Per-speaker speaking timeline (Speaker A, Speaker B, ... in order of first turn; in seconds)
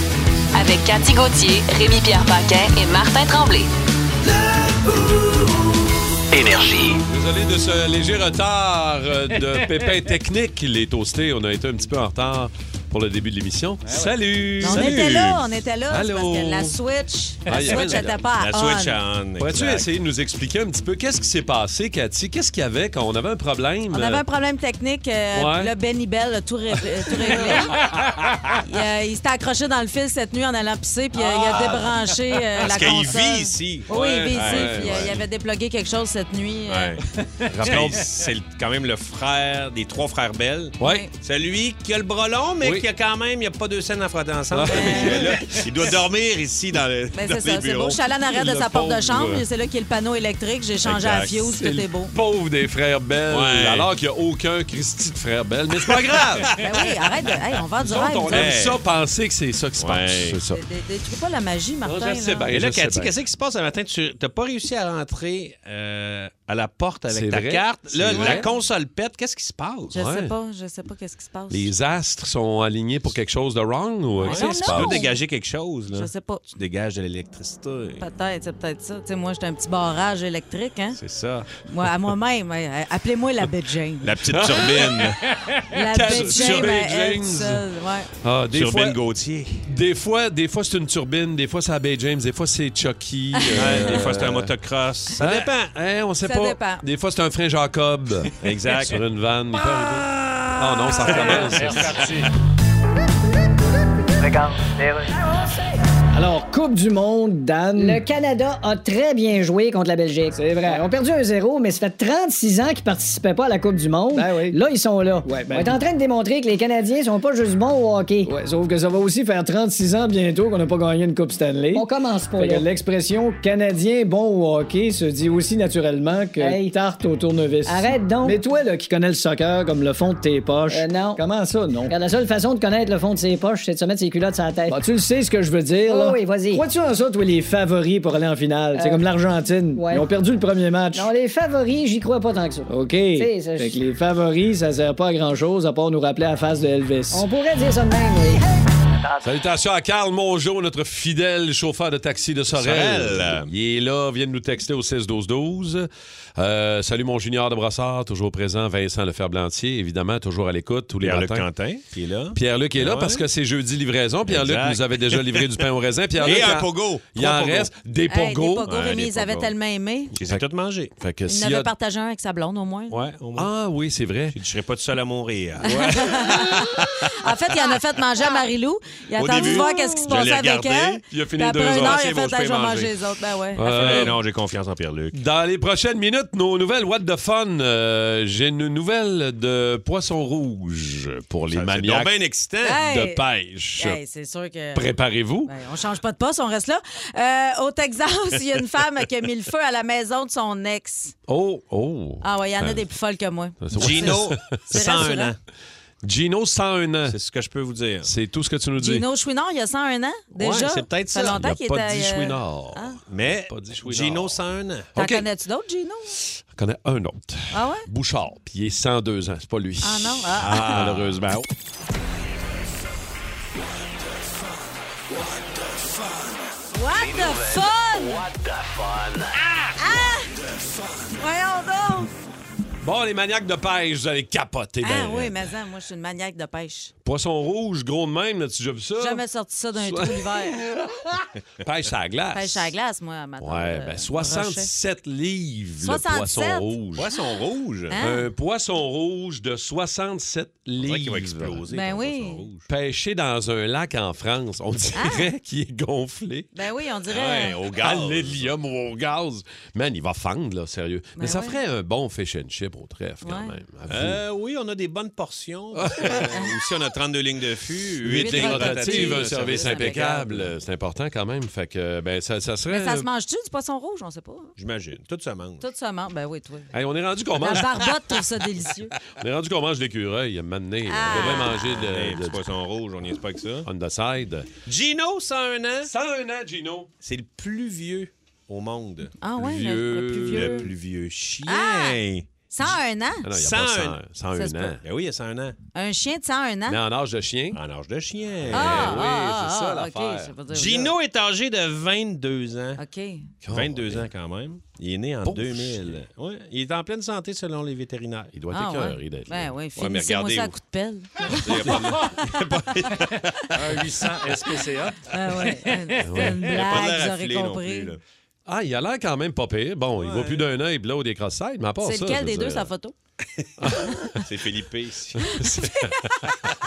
Speaker A: 0.5-3.7, 6.3-7.0, 226.9-229.3
Speaker B: 7.1-16.8, 17.4-18.2, 19.4-24.2, 25.3-25.7, 27.2-27.6, 33.9-35.1, 37.5-38.0, 40.8-41.0, 42.6-42.9, 44.5-45.4, 51.6-56.5, 57.8-60.6, 61.8-63.1, 67.1-68.5, 69.9-70.3, 71.5-75.0, 84.3-85.2, 85.8-87.6, 88.2-89.0, 89.6-94.5, 95.2-102.0, 149.2-161.5, 162.3-168.7, 171.0-171.7, 173.3-174.4, 175.7-176.1, 179.3-180.3, 181.1-182.9, 183.5-184.2, 185.1-192.1, 192.7-194.0, 194.7-195.5, 201.3-202.8, 203.6-204.4, 206.0-207.2, 208.0-209.0, 211.2-214.4, 214.9-215.3, 216.5-221.5, 232.8-235.5, 237.0-239.2, 239.7-242.7, 243.4-247.1, 248.0-251.6, 252.7-256.5, 257.8-264.2, 265.7-266.3, 268.0-273.1, 276.7-277.8, 279.2-282.4, 283.6-284.5, 285.8-286.9, 289.4-290.6, 293.2-294.8, 296.7-297.6, 298.5-300.3, 303.4-304.1, 305.2-306.0, 308.3-309.5, 316.0-316.6, 318.5-322.7, 323.6-324.2, 325.2-326.0
Speaker C: 14.6-15.4, 17.5-19.9, 31.1-31.9, 32.6-35.1, 36.7-49.4, 50.8-51.5, 53.3-53.9, 55.8-56.5, 58.3-58.8, 59.8-60.4, 62.5-70.0, 74.2-78.0, 81.0-81.5, 84.0-85.2, 86.0-86.7, 88.5-89.7, 93.5-95.7, 98.4-99.0, 99.7-102.1, 152.5-153.5, 161.0-163.2, 164.3-165.6, 166.2-167.7, 168.7-169.5, 170.1-170.9, 172.9-173.5, 174.3-177.1, 179.2-181.0, 181.7-182.1, 183.7-185.2, 191.5-192.8, 203.8-205.4, 207.1-208.1, 210.3-211.4, 213.1-214.9, 220.4-221.2, 247.0-248.0, 250.8-252.7, 257.1-258.5, 263.9-270.5, 274.6-275.6, 281.2-283.7, 284.6-285.9, 287.0-289.1, 290.3-292.3, 293.3-294.0, 294.8-295.6, 297.5-299.0, 300.5-302.8, 303.5-308.3, 309.8-310.6, 311.2-314.4, 316.2-318.0, 320.0-320.5, 324.1-325.3
Speaker D: 14.6-19.0, 23.9-27.8, 28.6-37.0, 40.8-41.1, 44.7-45.3, 47.1-52.1, 56.6-58.5, 60.5-62.5, 68.1-68.5, 69.9-71.7, 74.2-75.2, 75.9-76.5, 78.0-81.0, 81.7-84.1, 85.7-88.1, 93.4-94.0, 96.2-96.8, 168.1-170.1, 171.3-173.0, 175.6-184.1, 192.6-193.2, 193.8-194.9, 195.4-201.1, 202.2-204.2, 204.7-205.3, 208.8-213.0, 214.9-216.2, 217.5-217.9, 219.8-220.8, 226.7-228.3, 229.8-230.3, 231.2-232.1, 234.8-236.9, 239.0-240.6, 242.3-244.7, 245.8-246.7, 247.9-248.3, 251.7-252.4, 254.9-255.3, 256.5-257.6, 261.2-261.6, 263.2-263.6, 268.2-270.1, 272.7-274.5, 275.6-276.7, 277.4-278.9, 280.9-281.6, 289.2-290.7, 291.5-292.0, 292.5-293.2, 294.4-294.8, 295.7-296.8, 298.5-300.9, 302.8-303.3, 308.5-312.2, 315.1-317.9, 321.8-322.9
Speaker E: 101.2-102.3, 313.6-315.0
Speaker F: 104.2-105.2, 107.8-118.3, 121.7-122.7, 126.4-126.7, 127.7-128.4, 130.7-131.2, 131.9-134.8, 135.8-136.7, 138.7-139.1, 139.7-140.1, 140.9-143.8, 147.1-148.4
Speaker G: 106.1-108.0, 110.3-111.0, 114.1-114.6, 115.2-115.9, 118.2-132.0, 134.7-141.1, 142.7-147.2